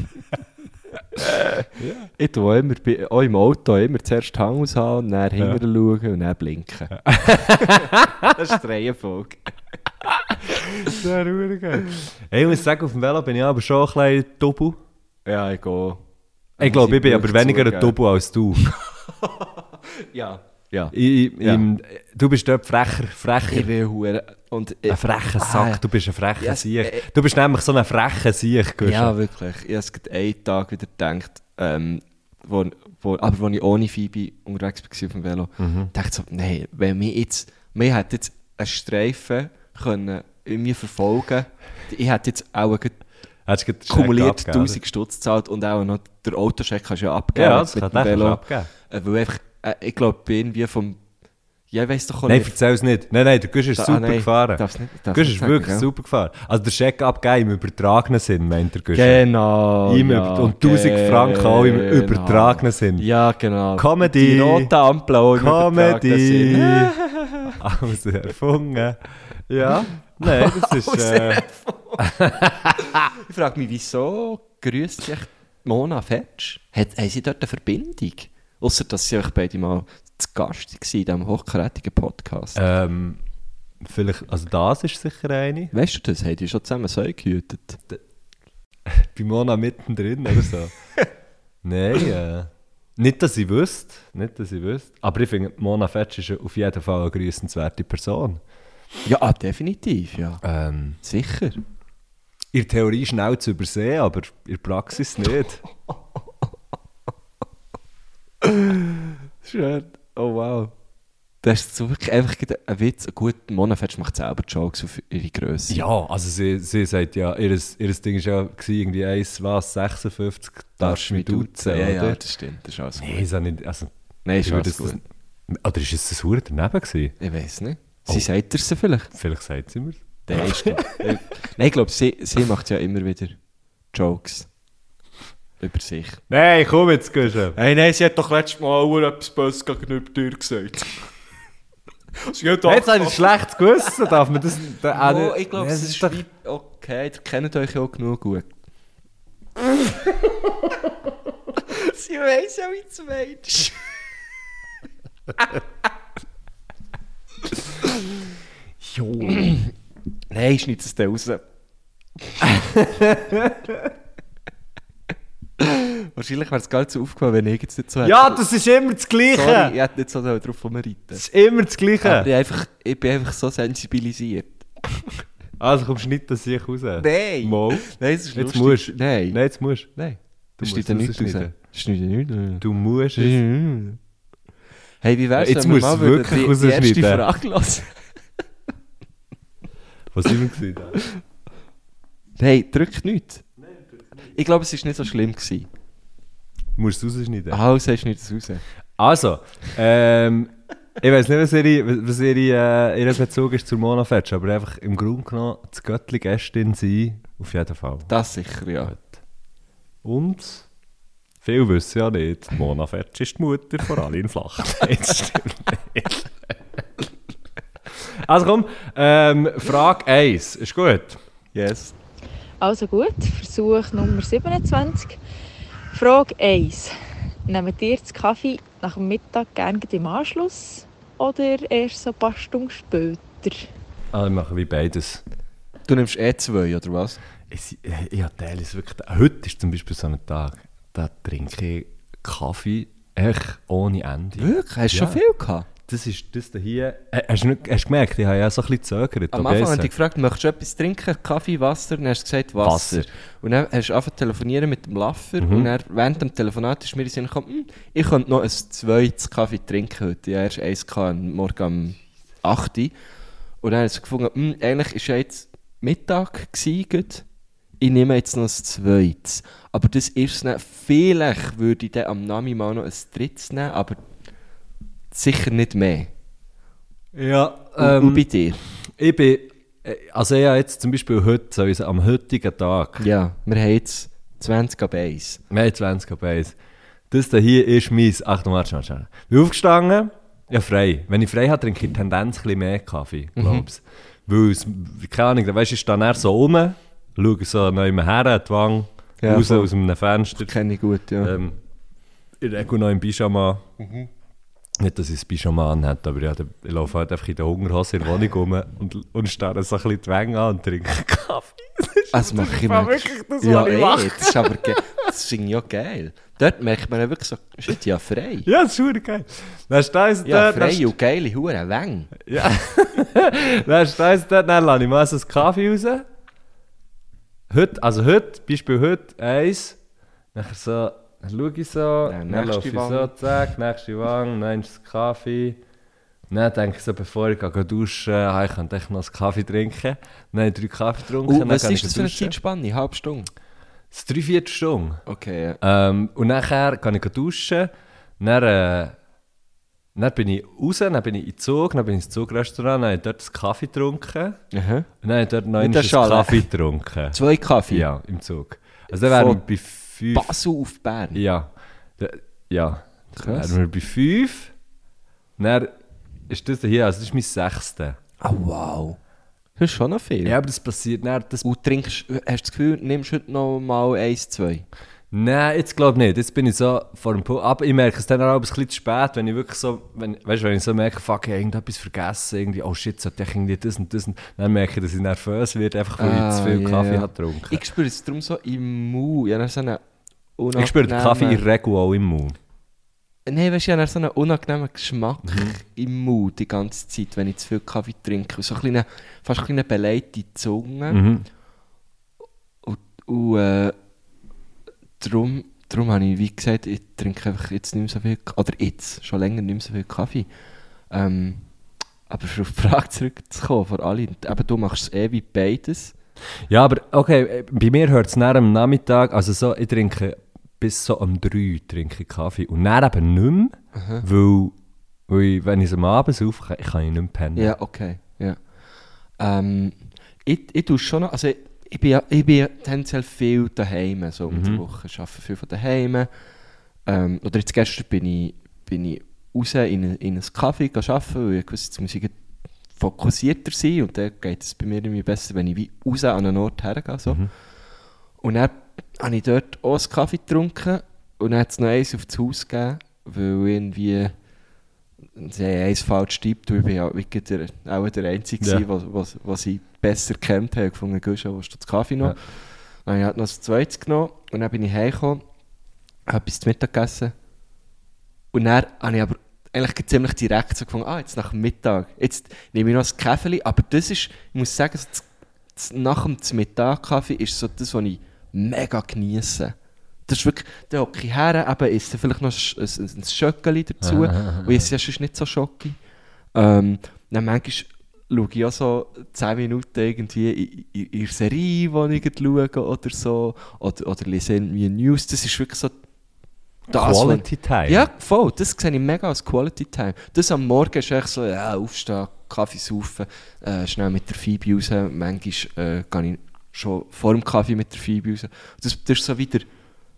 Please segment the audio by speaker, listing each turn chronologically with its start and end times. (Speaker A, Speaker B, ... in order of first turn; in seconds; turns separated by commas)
Speaker A: 1.2-9.5, Speaker B: 1.8-2.1, Speaker B: 7.1-8.3, Speaker B: 10.3-14.8, Speaker A: 15.3-16.0, Speaker A: 16.6-18.0, Speaker B: 16.6-18.7, Speaker A: 19.4-21.6, Speaker B: 20.9-23.7, Speaker A: 23.5-25.8, Speaker B: 24.9-29.1, Speaker A: 26.4-27.1, Speaker A: 28.8-43.0, Speaker B: 35.6-35.9, Speaker B: 43.5-44.8, Speaker A: 43.9-51.0, Speaker B: 47.4-48.7, Speaker A: 51.7-52.6, Speaker B: 52.3-59.2, Speaker A: 53.8-55.9, Speaker A: 58.9-67.5, Speaker B: 59.9-63.1, Speaker B: 63.8-64.7, Speaker B: 65.3-67.0, Speaker B: 67.5-71.5, Speaker A: 70.2-72.1, Speaker B: 72.0-73.0, Speaker A: 72.9-82.6, Speaker B: 82.6-83.2, Speaker B: 83.8-85.7, Speaker A: 85.7-87.8, Speaker B: 88.9-90.7, Speaker B: 91.6-98.4, Speaker A: 99.0-100.4, Speaker B: 100.4-101.0, Speaker A: 101.0-101.6, Speaker B: 102.5-105.6, Speaker A: 108.4-110.7, Speaker A: 111.4-115.8, Speaker B: 115.7-122.2, Speaker A: 120.8-123.3, Speaker B: 123.0-127.2, Speaker A: 124.2-125.0, Speaker A: 127.2-129.1, Speaker B: 129.1-131.1, Speaker A: 130.3-133.4, Speaker A: 133.9-134.5, Speaker A: 135.6-136.2, Speaker B: 136.3-137.6, Speaker A: 137.6-141.1, Speaker A: 142.2-143.3, Speaker B: 142.7-146.2, Speaker A: 144.9-148.5, Speaker A: 151.7-153.8, Speaker B: 158.8-159.6, Speaker A: 159.3-159.6, Speaker A: 160.3-161.4, Speaker B: 162.4-163.9, Speaker A: 165.6-168.4, Speaker B: 168.0-169.8, Speaker A: 169.3-171.2, Speaker B: 171.2-172.3, Speaker A: 172.0-175.2, Speaker B: 175.6-179.9, Speaker A: 177.0-179.4, Speaker A: 180.0-182.7, Speaker B: 180.6-181.5, Speaker B: 182.6-183.4, Speaker A: 183.2-184.0, Speaker A: 185.0-187.9, Speaker B: 185.4-187.2, Speaker B: 190.1-191.0, Speaker A: 192.4-193.4, Speaker A: 194.3-195.7, Speaker B: 196.8-197.6, Speaker A: 197.5-198.6, Speaker B: 199.0-208.1, Speaker A: 208.1-208.9, Speaker B: 208.9-209.2, Speaker B: 210.0-210.7, Speaker B: 211.4-216.5, Speaker B: 218.0-221.2, Speaker A: 221.5-221.9, Speaker C: 222.6-225.2, Speaker C: 225.9-226.9, Speaker C: 227.5-233.7, Speaker B: 234.1-235.2, Speaker A: 235.9-237.2, Speaker B: 237.5-245.2, Speaker A: 244.4-245.7, Speaker B: 245.8-249.9, Speaker A: 249.3-262.9, Speaker B: 252.6-253.1, Speaker B: 255.4-255.7, Speaker A: 263.6-267.2, Speaker A: 267.8-274.0, Speaker A: 275.1-276.1, Speaker B: 277.1-278.3, Speaker A: 277.8-278.6, Speaker B: 279.0-283.1, Speaker A: 283.0-285.4, Speaker B: 285.5-286.6, Speaker B: 287.1-300.5, Speaker A: 293.4-293.7, Speaker A: 299.2-299.7, Speaker A: 300.4-301.4, Speaker B: 301.2-301.6, Speaker B: 302.4-303.7, Speaker A: 303.8-304.1, Speaker B: 304.8-314.9, Speaker A: 312.1-318.5, Speaker B: 318.5-320.9, Speaker A: 320.2-322.1, Speaker B: 322.3-326.1, Speaker B: 327.5-329.8, Speaker B: 330.3-335.6, Speaker A: 332.1-333.1, Speaker B: 336.3-342.4, Speaker A: 341.2-343.3, Speaker B: 343.9-345.0, Speaker A: 345.1-345.6, Speaker B: 345.6-349.0, Speaker B: 349.9-354.4, Speaker A: 354.5-354.9, Speaker B: 355.0-360.4, Speaker A: 355.6-356.5, Speaker A: 357.1-357.9, Speaker A: 358.9-359.4, Speaker A: 360.1-361.2, Speaker B: 361.1-364.5, Speaker A: 363.2-363.6, Speaker B: 365.4-365.7, Speaker B: 366.3-368.0, Speaker A: 368.2-369.0, Speaker A: 369.6-370.4, Speaker B: 370.2-371.5, Speaker A: 371.4-374.7, Speaker B: 375.1-387.6, Speaker A: 386.0-389.8, Speaker A: 390.4-391.4, Speaker B: 390.6-392.4, Speaker A: 393.3-401.0, Speaker B: 395.3-395.6, Speaker B: 400.9-401.3, Speaker A: 402.6-403.8, Speaker A: 405.0-410.3, Speaker A: 410.9-411.5, Speaker A: 412.1-415.9, Speaker B: 416.5-424.6, Speaker A: 423.7-424.1, Speaker B: 425.1-427.5, Speaker A: 427.4-428.4, Speaker A: 429.2-436.1, Speaker B: 434.3-434.6, Speaker A: 436.9-442.1, Speaker A: 442.8-447.3, Speaker A: 448.2-454.1, Speaker A: 455.2-465.2, Speaker B: 458.4-458.7, Speaker A: 466.1-467.1, Speaker A: 468.3-479.6, Speaker A: 480.1-485.8, Speaker B: 483.8-484.7, Speaker A: 486.4-495.8, Speaker B: 496.7-497.9, Speaker A: 496.7-509.5